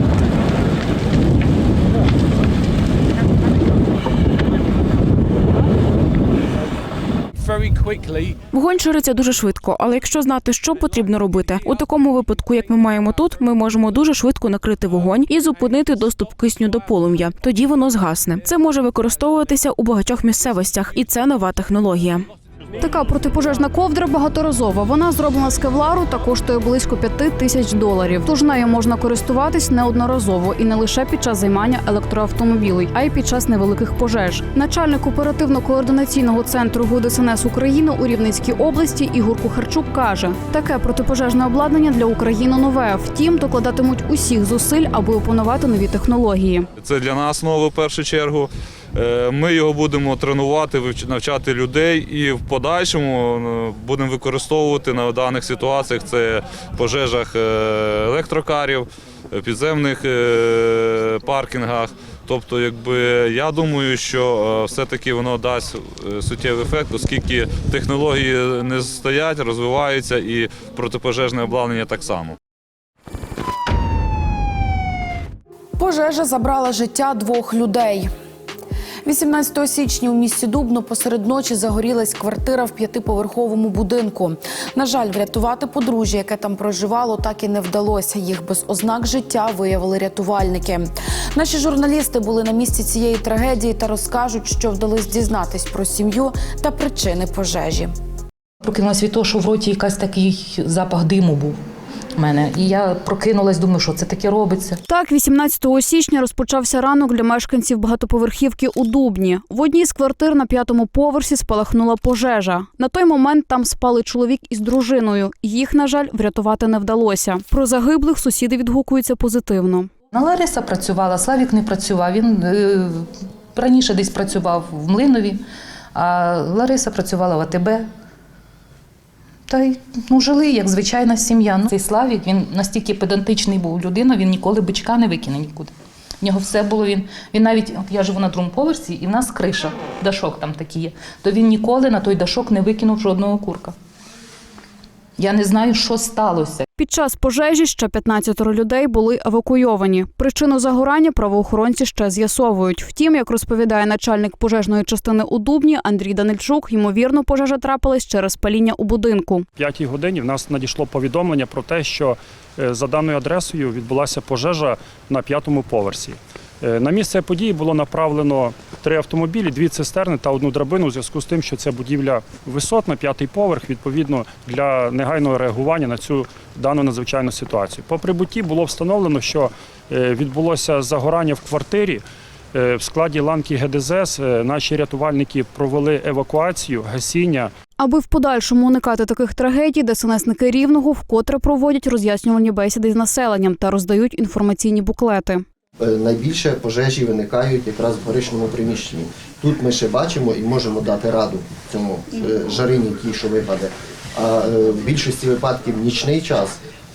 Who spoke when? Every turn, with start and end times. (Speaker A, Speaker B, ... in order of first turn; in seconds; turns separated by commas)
Speaker A: 8.5-22.2, Speaker B: 22.8-46.7, Speaker C: 46.8-72.4, Speaker D: 75.8-78.1, Speaker D: 79.0-97.9, Speaker E: 98.6-101.6, Speaker E: 102.2-104.8, Speaker B: 104.9-119.9, Speaker E: 120.1-127.9, Speaker E: 129.5-143.8, Speaker E: 145.2-146.7, Speaker B: 146.8-159.5, Speaker F: 159.6-187.5, Speaker B: 187.8-195.4, Speaker G: 195.8-206.6